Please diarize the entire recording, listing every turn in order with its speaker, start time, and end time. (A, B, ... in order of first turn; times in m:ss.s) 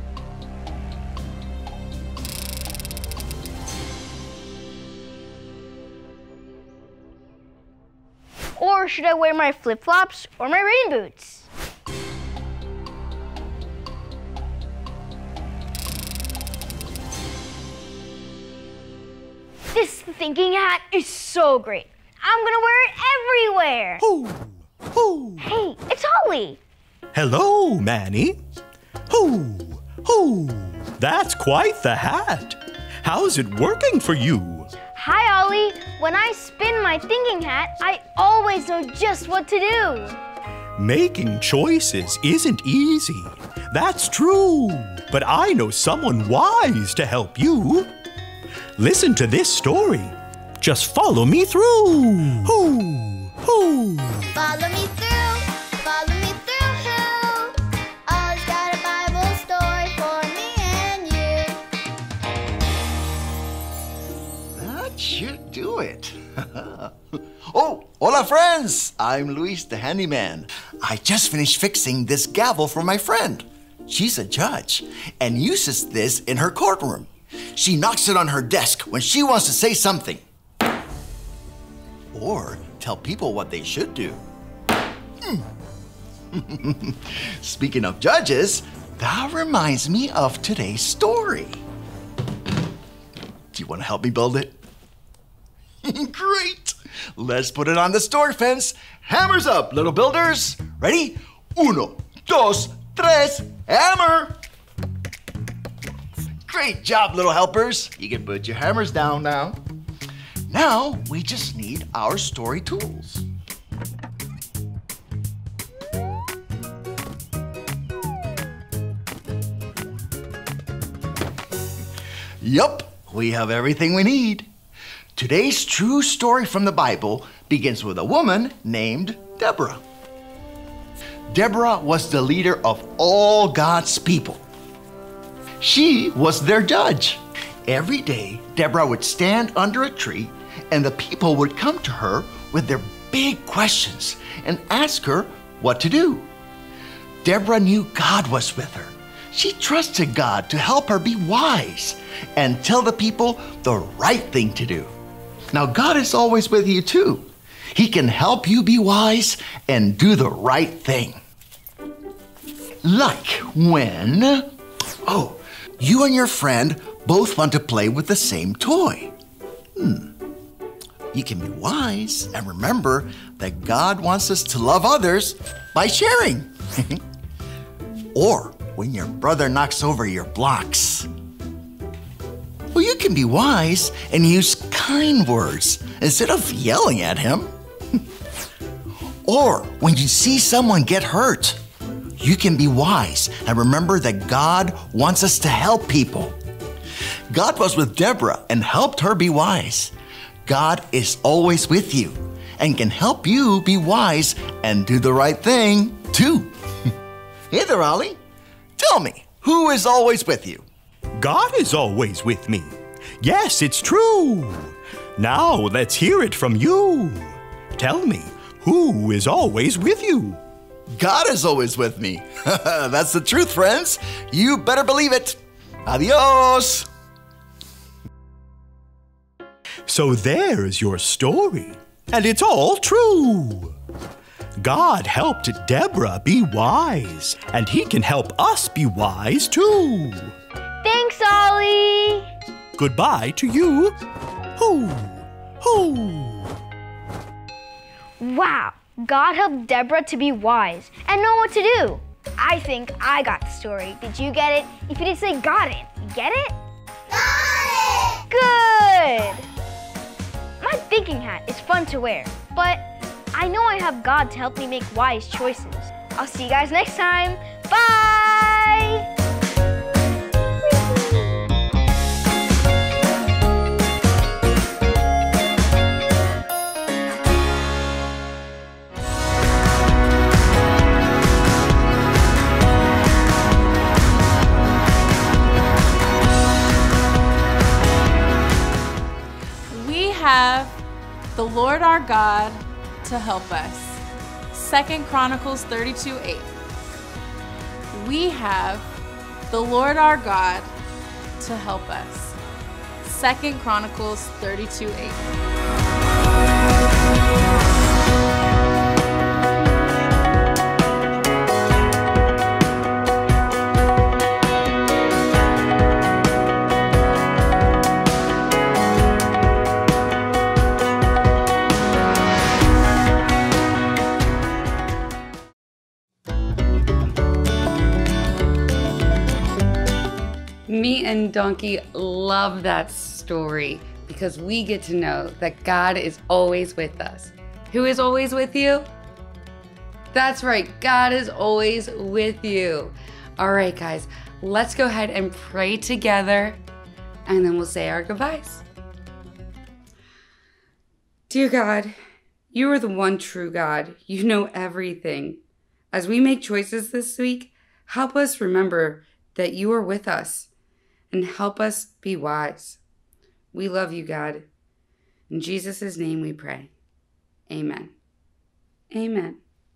0:08.6-0:11.5 A
0:19.7-0:24.0 A
0:24.0-0:25.4 B
0:25.4-0:26.6 A
0:27.1-0:28.4 B
0:29.1-0:34.7 B
0:34.9-0:40.2 A
0:40.8-0:47.9 B
0:48.8-0:54.3 B
0:54.4-0:57.6 C
0:58.1-1:01.6 C
1:04.6-1:07.0 D
1:07.5-1:20.2 D
1:22.1-1:24.2 D
1:26.3-1:31.6 D
1:33.5-1:34.6 D
1:35.8-1:44.4 D
1:46.4-1:49.6 D
1:50.5-1:53.3 D
2:02.4-2:04.5 D
2:05.2-2:09.8 D
2:11.3-2:14.4 D
2:15.6-2:26.3 D
2:27.2-2:34.9 D
2:35.5-2:41.2 D
2:42.8-2:44.5 D
2:45.0-2:49.1 D
2:49.8-2:50.1 D
2:51.1-2:57.0 D
2:58.2-3:01.1 D
3:02.7-3:07.5 D
3:09.3-3:11.6 D
3:12.2-3:16.4 D
3:17.3-3:19.9 D
3:20.5-3:26.5 D
3:27.5-3:28.2 D
3:28.8-3:30.6 D
3:31.2-3:40.4 B
3:41.0-3:46.9 D
3:49.9-3:53.7 B
3:54.6-4:00.3 B
4:00.8-4:02.3 A
4:02.8-4:04.0 B
4:04.6-4:06.5 B
4:08.2-4:16.5 A
4:17.1-4:18.2 C
4:18.3-4:19.5 A
4:20.6-4:29.0 A
4:30.6-4:31.3 A
4:49.7-4:50.8 E
4:51.4-4:56.6 E
4:57.9-4:58.9 E
4:59.5-5:00.7 E
5:01.4-5:02.4 E
5:03.0-5:05.3 E
5:30.7-5:38.9 F
5:40.1-5:46.6 F
5:47.3-5:48.6 F
5:51.3-5:52.0 F
5:52.5-5:55.4 F
5:55.9-6:00.5 F
6:01.1-6:02.8 F
6:03.5-6:04.5 F
6:05.3-6:06.7 F
6:07.5-6:08.0 F
6:08.9-6:09.4 F